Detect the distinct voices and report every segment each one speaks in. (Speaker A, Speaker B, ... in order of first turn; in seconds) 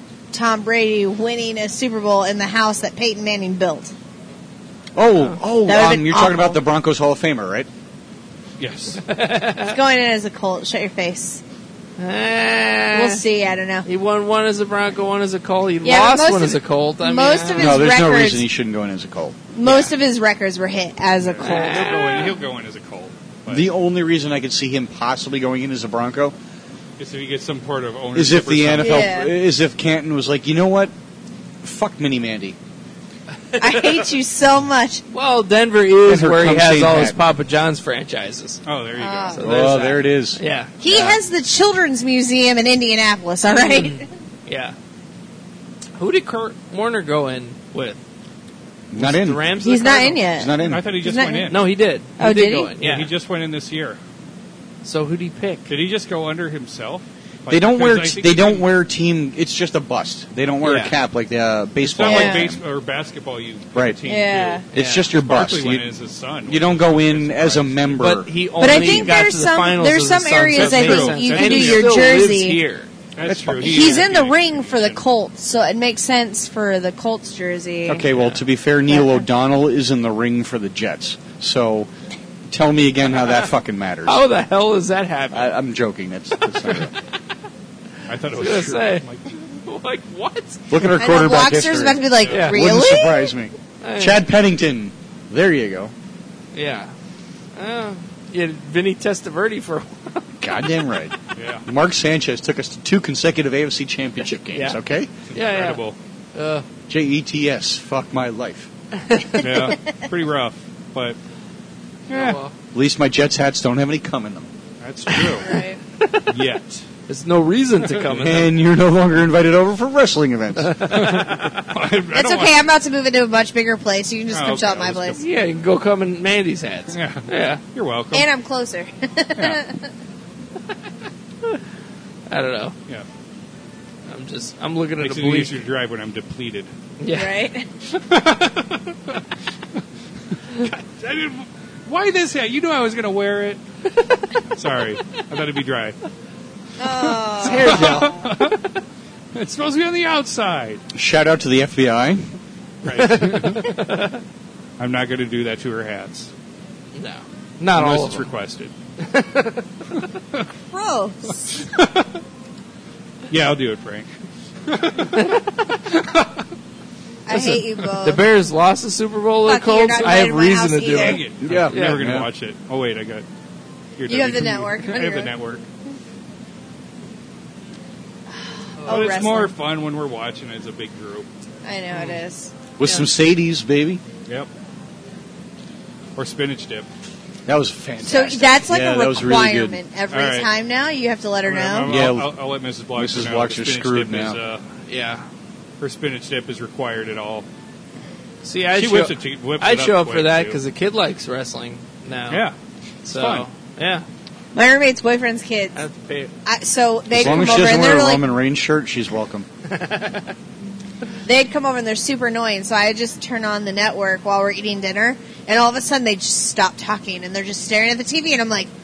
Speaker A: 0.3-3.9, 5.6-6.6, 9.7-11.4, 12.9-13.9, 15.8-18.4, 19.5-22.3, 28.8-29.3, 33.6-35.0, 39.0-39.4, 40.8-44.0, 49.6-51.5, 52.2-52.7, 62.0-62.5, 64.1-64.6, 68.6-72.6, 73.6-78.0, 78.9-79.2, 91.0-93.3, 115.4-115.8, 122.1-125.2, 128.1-129.8, 137.1-137.7, 146.8-148.2, 160.7-161.7, 167.2-168.2, 169.4-171.2, 174.1-175.3, 178.3-179.5, 181.6-182.5, 188.0-191.9, 204.5-205.8, 206.4-208.2, 211.2-218.7
Speaker B: 5.0-7.7, 17.5-19.4, 23.5-26.3, 28.1-30.9, 31.6-32.6, 36.0-37.2, 39.4-40.4, 48.9-49.5, 50.3-50.9, 57.5-62.6, 64.7-65.9, 66.5-69.2, 73.2-74.0, 77.9-81.9, 82.5-84.2, 85.3-86.9, 90.7-95.9, 100.4-105.1, 106.9-108.7, 112.7-114.5, 118.2-120.8, 150.9-152.2, 171.4-172.3, 182.8-184.0, 187.5-189.8, 191.8-192.3, 192.9-194.4, 207.1-209.5
Speaker C: 8.6-9.0, 21.2-23.6, 27.0-29.1, 38.6-39.5, 50.6-51.6, 52.8-54.0, 55.7-58.7, 61.8-68.0, 70.5-72.3, 73.2-75.0, 88.1-89.2, 92.2-92.5, 101.3-101.6, 105.3-106.0, 109.4-111.2, 112.1-112.4, 114.8-115.6, 116.3-116.8, 118.0-118.3, 120.9-122.5, 124.3-125.2, 126.9-128.3, 135.0-136.7, 137.9-139.2, 140.5-143.6, 144.5-145.9, 147.6-148.7, 149.3-150.8, 152.8-153.7, 154.8-156.3, 157.7-158.7, 161.6-162.0, 163.3-164.1, 164.7-165.4, 165.9-166.2, 170.9-173.2, 174.0-175.6, 178.8-181.2, 186.2-186.9, 190.1-190.5, 191.4-194.6, 195.8-197.4, 198.7-200.6, 203.1-203.4
Speaker D: 9.0-9.8, 12.0-13.2, 13.8-17.9, 19.6-19.9, 21.4-22.3, 33.5-34.0, 35.1-38.6, 39.4-41.2, 43.5-44.7, 46.0-48.0, 49.0-50.2, 51.5-53.1, 54.8-55.7, 60.6-61.0, 64.7-65.1, 68.0-72.9, 78.1-78.4, 84.0-85.5, 88.2-90.9, 92.3-92.6, 93.8-94.2, 96.5-96.9, 97.5-100.3, 104.5-104.8, 105.3-105.8, 106.3-106.7, 109.0-109.5, 112.1-112.5, 115.1-115.5, 116.0-116.3, 117.1-118.5, 120.6-121.6, 125.1-127.6, 132.3-132.7, 134.1-135.6, 137.0-137.3, 147.4-148.3, 152.9-154.2, 156.9-158.3, 159.0-159.7, 165.1-165.4, 167.3-172.0, 194.9-195.2, 198.4-202.4, 203.0-204.0, 205.7-206.3, 209.7-210.3